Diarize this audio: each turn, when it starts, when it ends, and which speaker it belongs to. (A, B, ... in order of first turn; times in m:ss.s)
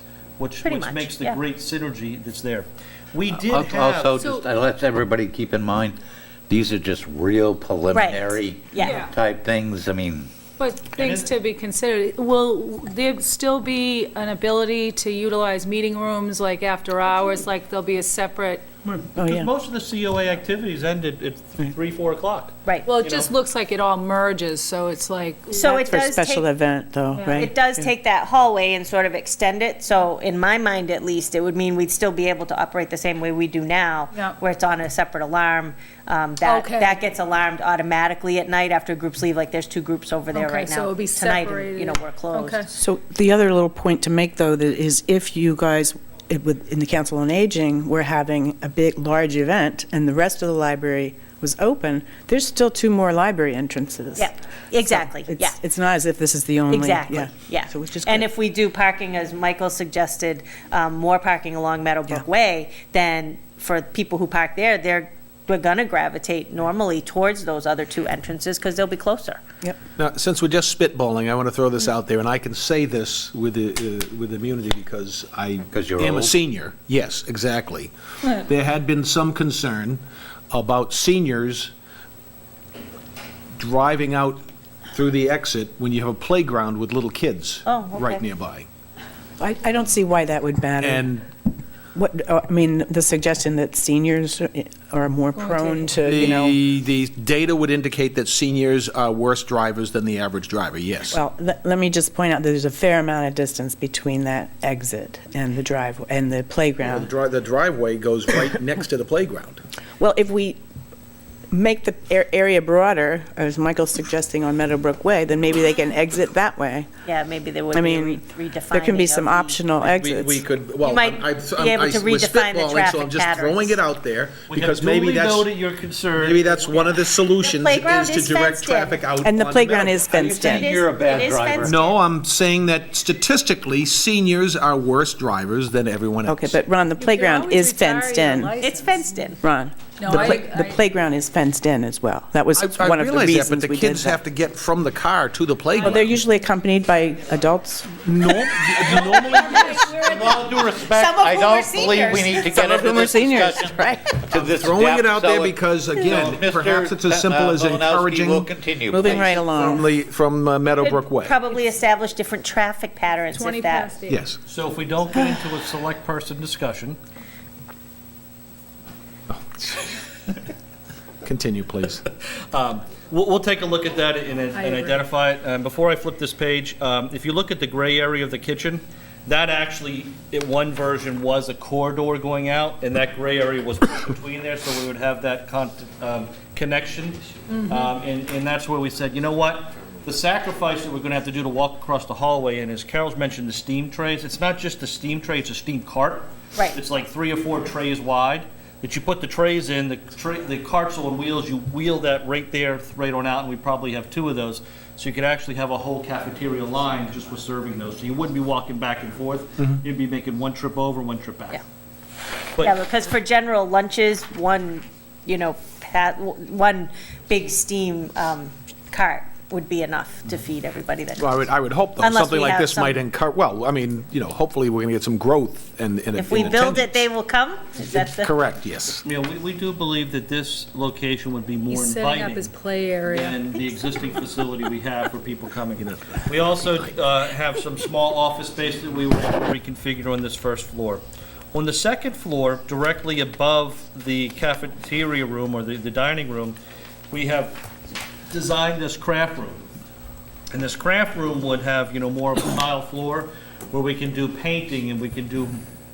0:00.4-0:04.1 A
0:00.6-0:01.4 B
0:03.5-0:06.0 C
0:04.2-0:04.4 D
0:06.5-0:10.3 C
0:07.9-0:09.0 B
0:08.8-0:09.1 D
0:10.6-0:18.6 D
0:10.9-0:11.3 A
0:18.8-0:23.3 A
0:19.2-0:19.5 E
0:22.8-0:26.0 D
0:25.5-0:26.4 B
0:25.9-0:27.9 E
0:27.2-0:27.5 D
0:27.4-0:42.6 B
0:36.4-0:37.0 D
0:40.3-0:42.7 D
0:42.7-0:54.3 E
0:54.2-0:55.6 B
0:54.9-0:58.3 E
0:56.7-1:09.4 B
1:10.0-1:21.7 F
1:15.7-1:16.4 C
1:23.6-1:28.7 F
1:27.6-1:28.2 B
1:29.4-1:31.1 E
1:30.8-1:31.2 F
1:31.9-1:36.6 E
1:35.4-1:36.2 D
1:36.0-1:41.2 F
1:41.1-1:47.1 E
1:46.8-1:49.6 F
1:50.0-1:50.6 E
1:51.5-1:56.9 E
1:57.0-1:59.7 B
1:57.7-2:00.4 E
1:59.8-2:05.5 F
2:00.8-2:03.8 B
2:04.5-2:06.9 A
2:06.1-2:10.2 F
2:07.4-2:09.0 B
2:09.2-2:10.7 E
2:10.1-2:11.8 C
2:10.4-2:12.0 B
2:11.6-2:16.6 F
2:16.2-2:18.5 E
2:17.0-2:19.2 D
2:18.6-2:19.4 B
2:19.4-2:24.2 E
2:20.0-2:20.8 D
2:22.6-2:26.0 F
2:25.8-2:28.0 E
2:28.0-2:30.0 F
2:28.8-2:39.5 C
2:29.4-2:32.3 B
2:29.5-2:29.9 D
2:32.5-2:34.2 E
2:34.3-2:38.5 F
2:38.9-2:39.8 E
2:39.4-2:41.4 F
2:40.8-2:43.9 B
2:43.3-2:44.2 D
2:44.0-2:44.4 F
2:44.4-2:47.0 A
2:49.3-2:49.9 F
2:51.2-2:52.0 F
2:52.5-3:31.6 A
2:54.5-2:55.0 D
3:32.6-3:41.4 B
3:41.2-3:47.1 F
3:42.0-3:43.0 B
3:46.1-3:48.3 B
3:47.8-3:49.0 F
3:49.0-3:52.5 A
3:51.7-3:53.6 D
3:53.1-4:01.0 A
4:01.5-4:06.6 A
4:07.1-4:07.6 A
4:08.3-4:09.6 A
4:10.5-4:15.6 A